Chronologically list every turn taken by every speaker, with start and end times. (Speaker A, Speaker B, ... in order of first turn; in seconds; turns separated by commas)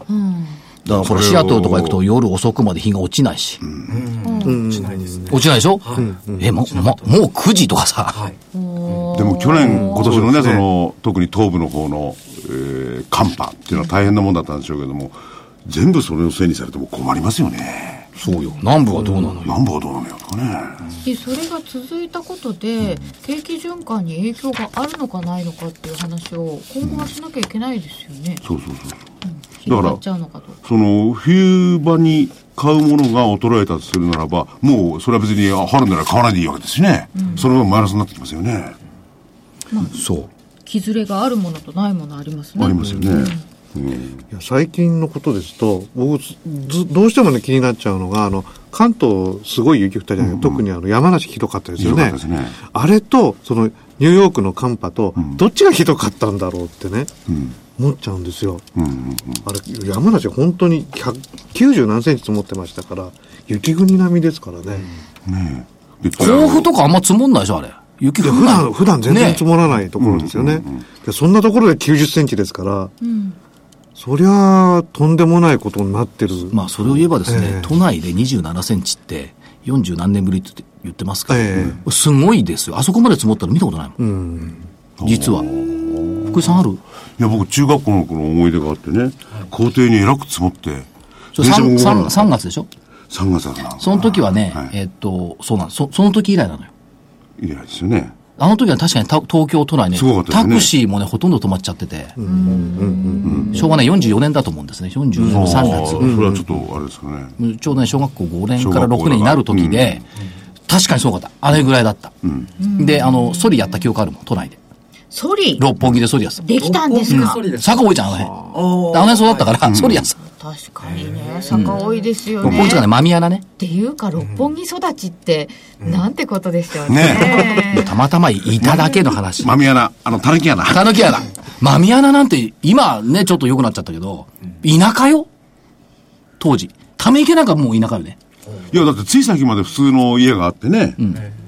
Speaker A: 0.1-0.6, Speaker B: 0.9-2.0, Speaker C: 0.9-3.6, Speaker B: 3.6-4.0, Speaker D: 3.9-7.2, Speaker A: 4.2-4.7, Speaker E: 4.4-5.4, Speaker C: 5.3-8.2, Speaker E: 5.9-6.5, Speaker D: 8.1-9.1, Speaker A: 8.5-10.1, Speaker B: 9.1-18.1, Speaker E: 9.6-10.6, Speaker A: 18.2-18.6, Speaker C: 18.2-19.6, Speaker B: 19.4-20.8, Speaker A: 21.0-28.4, Speaker B: 28.4-29.0, Speaker A: 29.2-30.6, Speaker B: 29.7-30.0, Speaker B: 30.6-38.8, Speaker A: 37.2-37.5, Speaker A: 39.7-40.0, Speaker C: 39.9-40.3, Speaker A: 40.6-43.4, Speaker B: 42.6-44.2, Speaker E: 42.8-43.1, Speaker E: 44.3-57.1, Speaker B: 50.2-50.6, Speaker B: 51.8-52.6, Speaker B: 57.3-57.5, Speaker E: 57.8-58.7, Speaker B: 58.8-59.4, Speaker E: 59.4-64.9, Speaker B: 65.3-66.7, Speaker C: 66.2-69.5, Speaker E: 68.2-72.9, Speaker B: 70.0-70.8, Speaker A: 73.0-73.4, Speaker E: 74.0-76.6, Speaker C: 76.5-84.0, Speaker E: 77.2-77.8, Speaker E: 81.3-81.8, Speaker E: 84.0-84.6, Speaker B: 85.0-86.6, Speaker C: 85.0-85.5, Speaker C: 86.3-86.8, Speaker B: 87.2-92.3, Speaker C: 91.3-92.7, Speaker B: 93.1-94.7, Speaker C: 93.8-96.7, Speaker B: 97.4-98.2, Speaker C: 98.4-102.2, Speaker B: 100.0-100.7, Speaker E: 102.2-103.6, Speaker A: 102.2-103.8, Speaker B: 103.2-103.5, Speaker C: 103.5-106.2, Speaker E: 105.2-106.4, Speaker B: 105.2-107.3, Speaker C: 107.4-110.0, Speaker B: 108.6-110.0, Speaker C: 110.7-112.1, Speaker A: 112.6-113.8, Speaker C: 112.8-114.6, Speaker A: 115.1-115.7, Speaker C: 115.6-116.5, Speaker A: 116.4-117.4, Speaker D: 116.6-117.9, Speaker C: 117.1-120.2, Speaker D: 118.5-119.6, Speaker B: 119.6-120.0, Speaker A: 120.2-122.9, Speaker D: 120.8-122.0, Speaker C: 121.5-121.8, Speaker C: 122.4-123.4, Speaker B: 122.4-122.7, Speaker A: 123.6-127.9, Speaker D: 124.2-124.5, Speaker D: 125.8-126.1, Speaker B: 126.9-127.8, Speaker C: 127.6-129.5, Speaker B: 128.6-131.1, Speaker C: 130.7-135.3, Speaker C: 136.4-138.2, Speaker D: 138.5-138.8, Speaker B: 138.7-141.0